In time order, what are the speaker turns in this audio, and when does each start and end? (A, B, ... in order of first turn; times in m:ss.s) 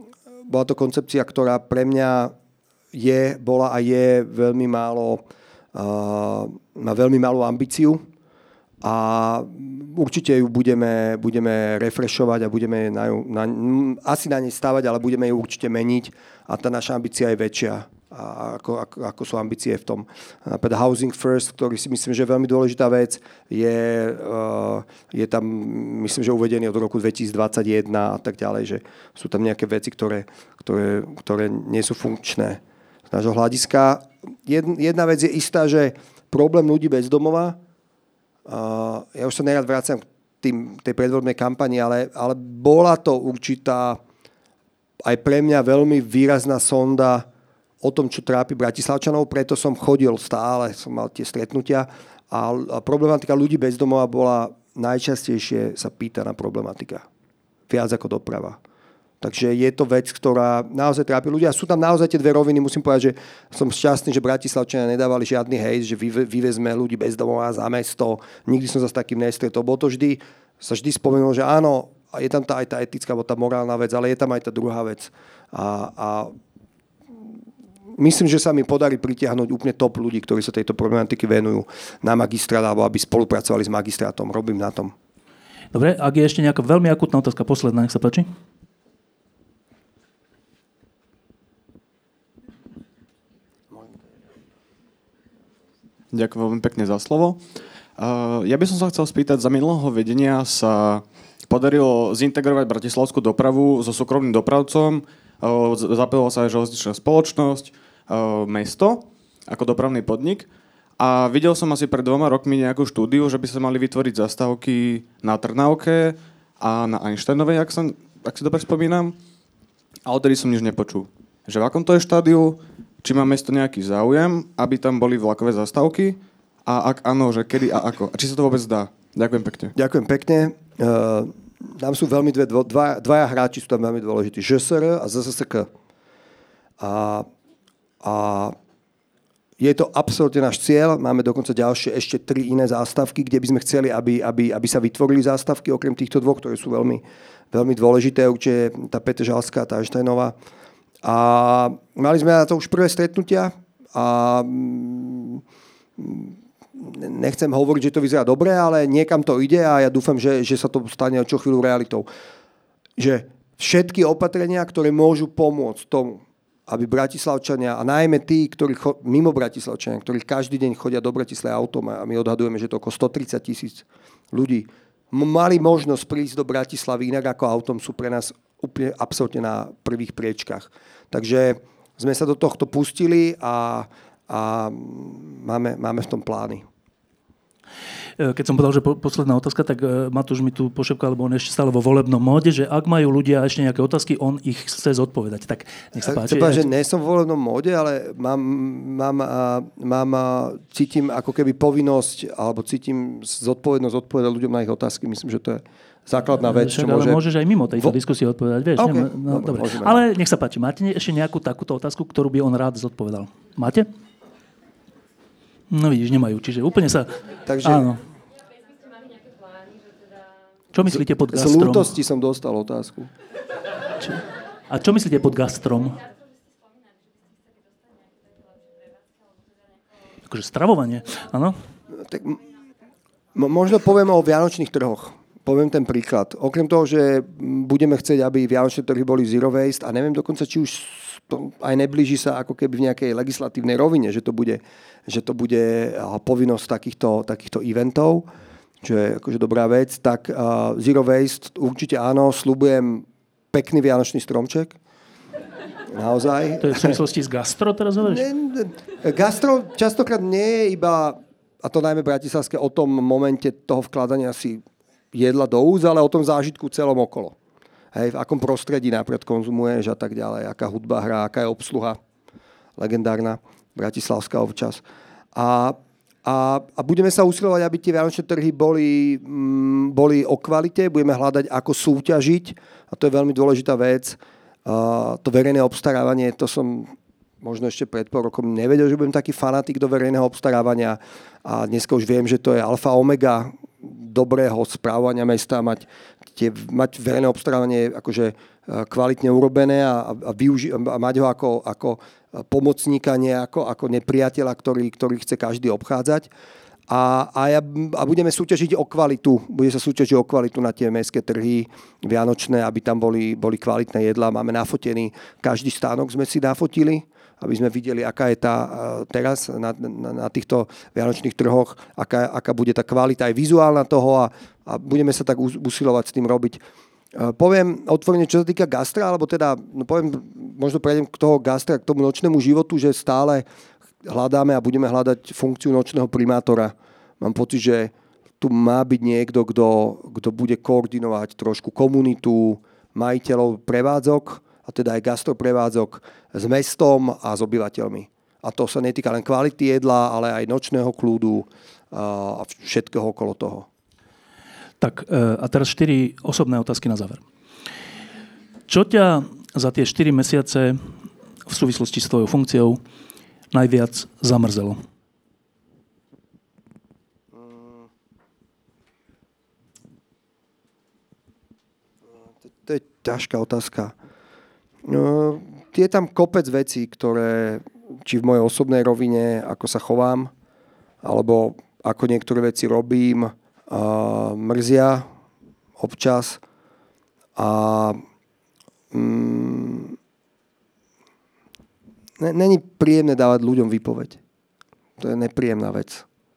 0:00.5-0:02.3 A
0:02.9-0:05.2 A
0:05.7-0:08.0 A
0:08.8-0:37.6 A
0:38.4-0:44.0 A
0:45.0-0:47.3 A
0:47.8-0:57.0 A
0:57.7-0:58.6 A
0:59.2-1:16.3 A
1:18.0-1:24.9 A
1:25.7-1:28.3 B
1:36.1-1:37.4 C
1:38.0-1:59.2 C
2:00.0-2:09.7 C
2:09.7-2:15.7 A
2:16.8-2:17.3 A
2:18.0-2:18.5 A
2:19.6-2:30.3 A
2:31.0-2:35.4 A
2:36.0-2:42.1 A
2:43.0-3:06.6 A
3:08.2-3:16.6 B
3:16.0-3:27.2 A
3:26.4-3:33.9 B
3:28.8-3:30.0 A
3:35.7-3:38.0 B
3:37.4-3:37.9 A
3:40.7-3:41.9 B
3:40.8-3:43.1 A
3:44.0-3:46.0 B
3:50.3-3:51.6 B
3:51.9-3:52.5 A
3:53.3-4:08.3 A
4:08.8-4:14.8 A
4:15.9-4:17.0 A
4:16.6-4:18.2 B
4:18.0-4:27.3 A
4:27.9-4:32.0 A
4:32.8-4:34.8 A
4:35.3-5:06.3 A
5:06.9-5:26.6 A
5:27.1-5:33.4 A
5:34.0-5:53.7 A
5:54.8-5:57.2 B
5:58.7-6:00.8 B
6:01.5-6:02.8 B
6:03.5-6:04.8 B
6:07.3-6:07.8 A
6:12.5-6:13.9 A
6:14.8-6:20.3 A
6:21.0-6:25.1 A
6:25.8-6:26.4 A
6:27.4-6:28.0 A
6:28.9-6:30.0 A
6:32.2-6:34.2 A
6:35.0-6:36.0 A